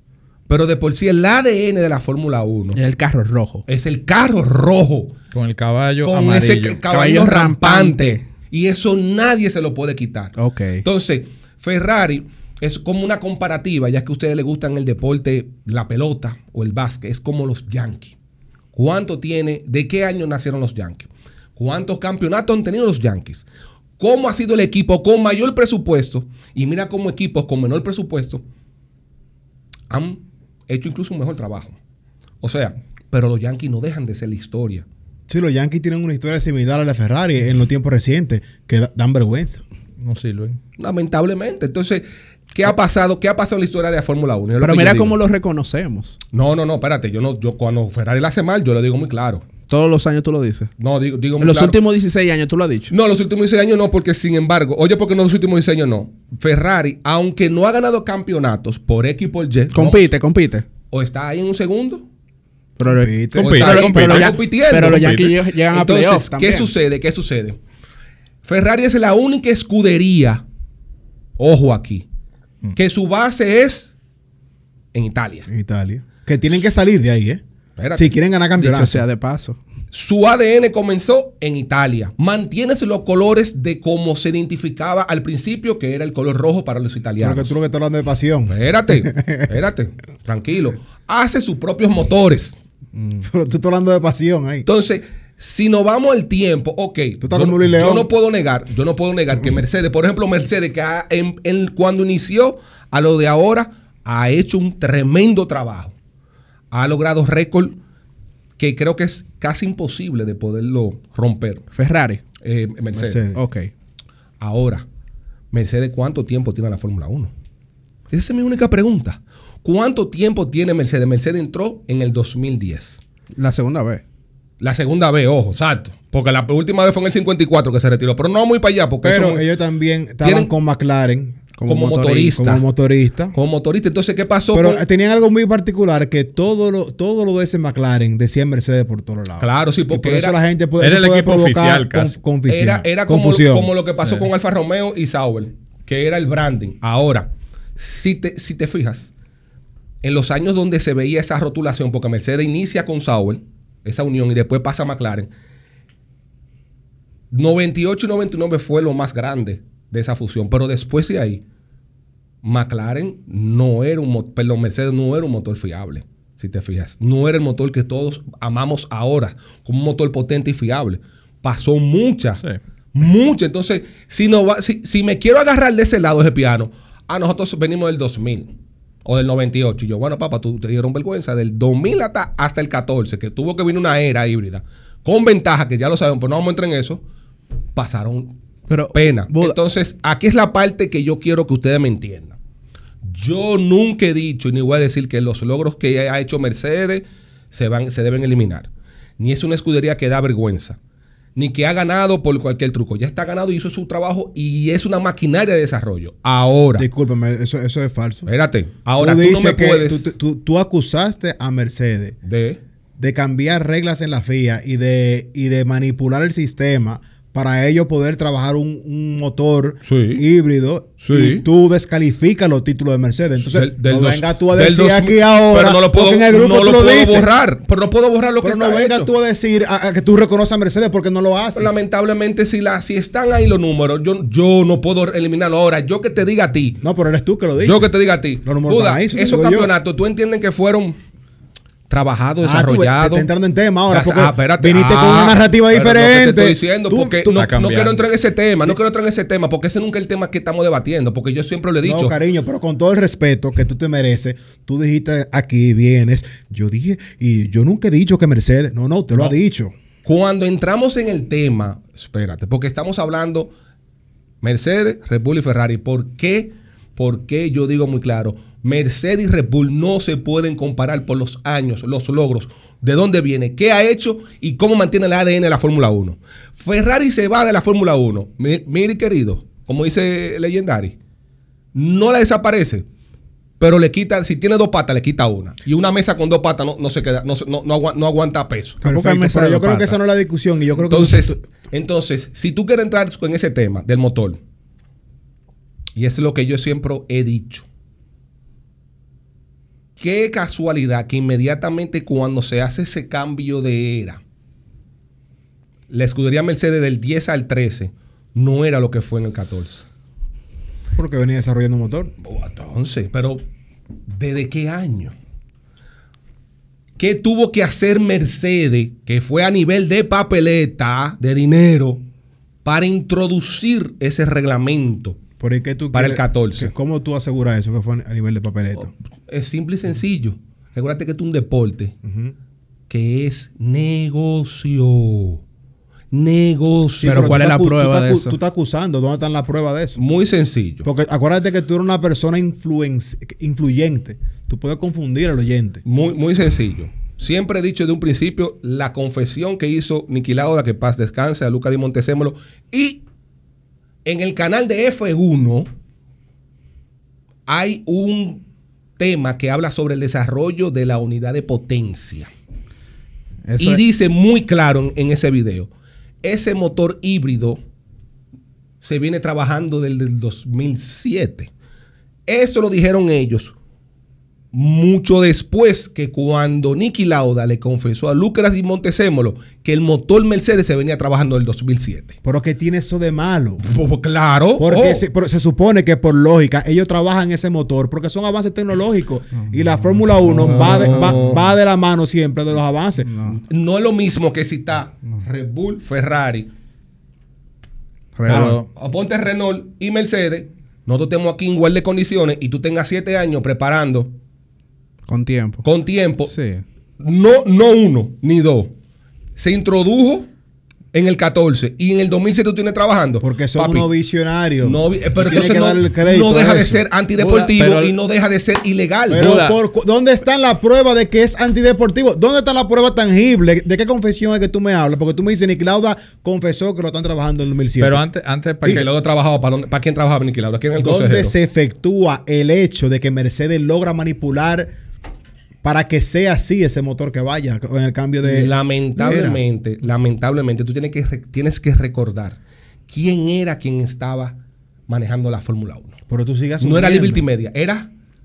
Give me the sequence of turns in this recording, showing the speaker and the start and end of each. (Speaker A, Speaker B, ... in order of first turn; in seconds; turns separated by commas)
Speaker A: 0.5-2.8, Speaker B: 2.7-3.6, Speaker A: 3.7-5.2, Speaker C: 5.3-6.8, Speaker A: 6.0-18.1, Speaker B: 6.9-8.2, Speaker B: 10.4-10.8, Speaker A: 18.7-23.4, Speaker A: 24.0-28.4, Speaker A: 29.9-31.8, Speaker A: 32.4-34.9, Speaker D: 35.3-39.6, Speaker C: 40.0-40.6, Speaker A: 40.8-45.2, Speaker B: 44.6-46.2, Speaker A: 46.3-49.5, Speaker B: 49.7-50.7, Speaker A: 50.8-51.8, Speaker B: 51.4-52.9, Speaker A: 52.9-60.1, Speaker B: 59.7-60.7, Speaker A: 60.9-62.0, Speaker B: 62.8-66.7, Speaker D: 62.8-63.6, Speaker A: 63.4-65.1, Speaker C: 63.4-65.4, Speaker A: 65.7-67.6, Speaker A: 68.4-70.4, Speaker A: 71.4-72.0, Speaker A: 72.7-73.9, Speaker A: 74.9-75.5, Speaker D: 75.5-77.4, Speaker A: 77.8-78.1, Speaker D: 77.9-79.0, Speaker B: 78.6-79.6, Speaker A: 79.9-87.5, Speaker D: 87.2-89.5, Speaker A: 88.5-92.5, Speaker B: 93.0-93.2, Speaker D: 93.2-94.7, Speaker A: 94.7-105.9, Speaker D: 97.2-98.1, Speaker A: 106.7-107.8, Speaker A: 108.6-111.6, Speaker B: 111.7-112.2, Speaker A: 112.4-113.2, Speaker D: 112.9-113.4, Speaker B: 113.3-113.7, Speaker A: 114.4-114.8, Speaker A: 115.5-117.3, Speaker A: 118.1-123.0, Speaker B: 123.4-124.0, Speaker A: 124.6-129.4, Speaker D: 129.0-131.5, Speaker A: 130.2-130.5, Speaker B: 131.6-132.5, Speaker A: 131.7-132.6, Speaker D: 132.3-133.3, Speaker A: 133.3-134.8, Speaker D: 134.5-143.7, Speaker A: 139.4-140.4, Speaker C: 140.8-142.2, Speaker A: 142.5-149.1, Speaker A: 150.0-155.3, Speaker A: 157.3-161.4, Speaker A: 162.4-172.4, Speaker A: 172.9-178.5, Speaker A: 179.0-187.0, Speaker A: 187.7-188.3, Speaker B: 188.7-189.6, Speaker A: 188.9-192.4, Speaker A: 193.0-200.8, Speaker A: 201.3-206.9, Speaker D: 206.8-208.3, Speaker A: 208.3-210.1, Speaker D: 209.0-212.2, Speaker A: 212.2-212.6, Speaker D: 213.0-227.3, Speaker A: 219.8-220.2, Speaker A: 221.0-221.4, Speaker A: 223.4-229.1, Speaker D: 228.4-231.8, Speaker A: 231.5-236.8, Speaker D: 236.8-237.9, Speaker A: 237.6-241.0, Speaker D: 238.4-239.7, Speaker A: 241.9-243.3, Speaker D: 242.4-247.4, Speaker A: 243.9-252.2, Speaker C: 247.3-248.0, Speaker D: 251.8-259.7, Speaker A: 260.0-263.5, Speaker A: 264.4-280.9, Speaker A: 281.7-282.9, Speaker A: 283.6-288.8, Speaker B: 288.8-290.0, Speaker D: 288.8-291.4, Speaker A: 290.9-294.4, Speaker A: 295.9-297.6, Speaker A: 300.0-304.2, Speaker A: 305.9-309.9, Speaker D: 310.9-312.1, Speaker A: 312.2-313.4, Speaker A: 314.1-315.1, Speaker A: 317.0-322.0, Speaker A: 322.6-325.2, Speaker D: 325.4-328.9, Speaker A: 325.9-326.7, Speaker A: 329.3-331.9, Speaker D: 332.0-332.3, Speaker A: 332.9-335.4, Speaker A: 336.1-337.4, Speaker D: 337.0-340.0, Speaker B: 337.0-338.4, Speaker A: 340.0-340.9, Speaker D: 340.8-345.8, Speaker A: 345.9-353.0, Speaker A: 354.0-355.7, Speaker A: 357.5-358.4, Speaker A: 359.0-362.3, Speaker B: 363.5-363.8, Speaker A: 363.6-365.7, Speaker A: 366.2-367.6, Speaker A: 368.8-371.5, Speaker A: 372.3-373.5, Speaker A: 374.5-382.1, Speaker D: 382.2-383.6, Speaker A: 383.6-385.1, Speaker D: 384.6-393.1, Speaker B: 390.3-391.2, Speaker A: 390.4-391.4, Speaker B: 393.1-393.4, Speaker A: 393.4-396.5, Speaker B: 398.1-398.6, Speaker C: 398.3-398.7, Speaker A: 398.3-404.1, Speaker B: 405.1-405.6, Speaker A: 405.6-406.3, Speaker B: 406.2-406.6, Speaker A: 407.0-408.7, Speaker A: 409.4-410.3, Speaker A: 410.9-413.9, Speaker D: 413.2-416.8, Speaker A: 414.6-419.4, Speaker C: 417.2-417.9, Speaker D: 419.1-428.0, Speaker C: 419.1-419.6, Speaker C: 427.8-428.9, Speaker A: 428.6-431.3, Speaker D: 430.8-434.7, Speaker D: 435.6-439.4, Speaker A: 438.2-442.4, Speaker A: 442.9-446.0, Speaker D: 446.1-447.2, Speaker A: 446.6-447.9